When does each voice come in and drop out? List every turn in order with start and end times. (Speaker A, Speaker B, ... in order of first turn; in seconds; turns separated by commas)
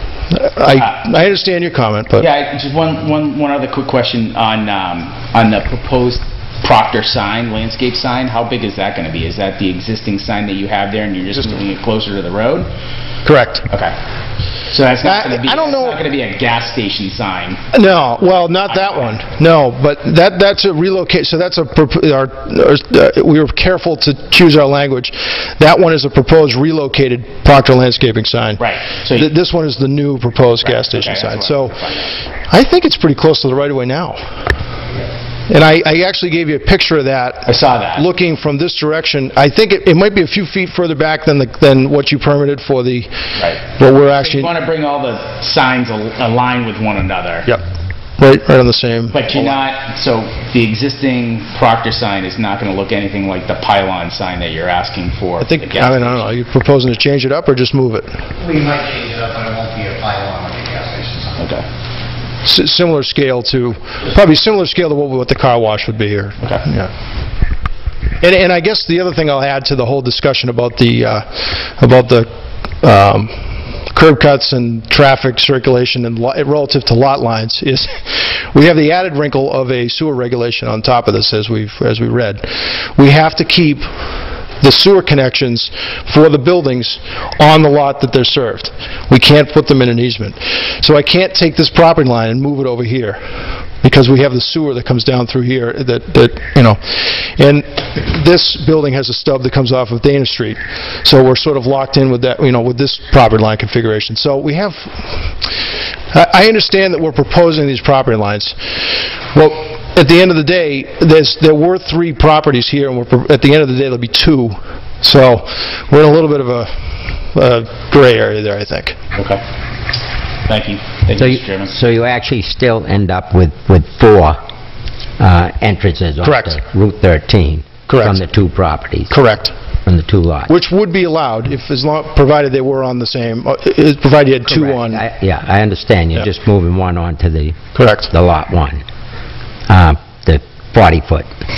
Speaker A: 0.3-2.3, Speaker B: 2.2-12.7, Speaker A: 13.2-13.7, Speaker B: 14.7-17.6, Speaker A: 15.0-16.0, Speaker A: 17.7-31.9, Speaker B: 18.7-19.0, Speaker B: 28.6-29.3, Speaker B: 30.6-32.0, Speaker A: 32.5-34.2, Speaker A: 35.5-44.5, Speaker B: 37.5-38.0, Speaker B: 43.4-43.6, Speaker B: 44.2-47.5, Speaker A: 48.2-49.6, Speaker B: 49.1-56.3, Speaker A: 55.4-58.2, Speaker C: 58.5-61.3, Speaker B: 61.4-61.6, Speaker A: 62.5-66.9, Speaker A: 68.2-72.3, Speaker A: 72.8-83.9, Speaker A: 84.6-93.2, Speaker A: 93.8-116.7, Speaker A: 117.3-119.0, Speaker B: 119.2-119.4, Speaker B: 120.5-121.7, Speaker D: 121.2-124.4, Speaker D: 125.2-129.2, Speaker A: 126.2-126.6, Speaker A: 127.9-128.2, Speaker A: 129.1-129.5, Speaker D: 129.9-130.5, Speaker A: 130.5-135.0, Speaker D: 134.5-137.6, Speaker A: 137.8-138.1, Speaker D: 138.1-138.8, Speaker D: 139.7-141.3